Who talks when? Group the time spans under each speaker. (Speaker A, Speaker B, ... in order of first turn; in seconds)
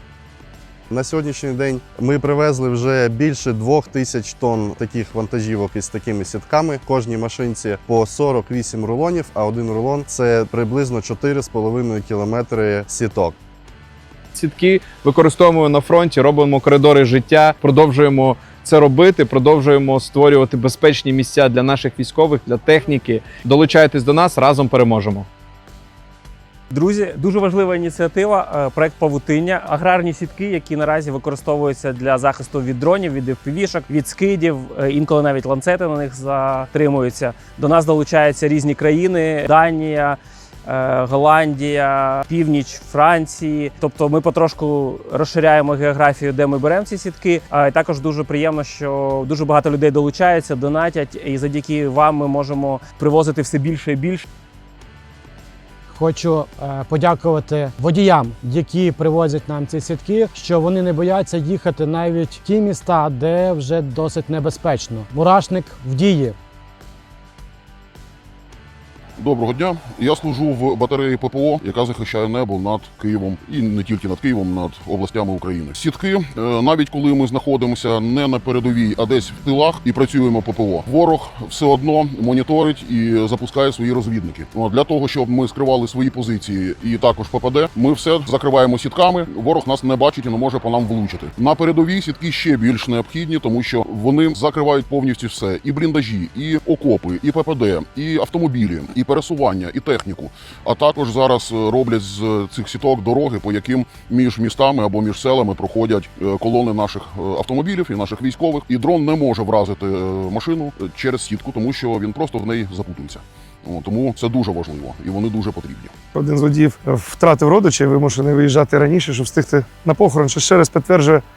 Speaker A: 0.9-13.4
Speaker B: 14.3-25.3
Speaker C: 26.7-54.3
Speaker D: 55.9-66.3
Speaker E: 69.2-115.9
Speaker F: 116.2-121.2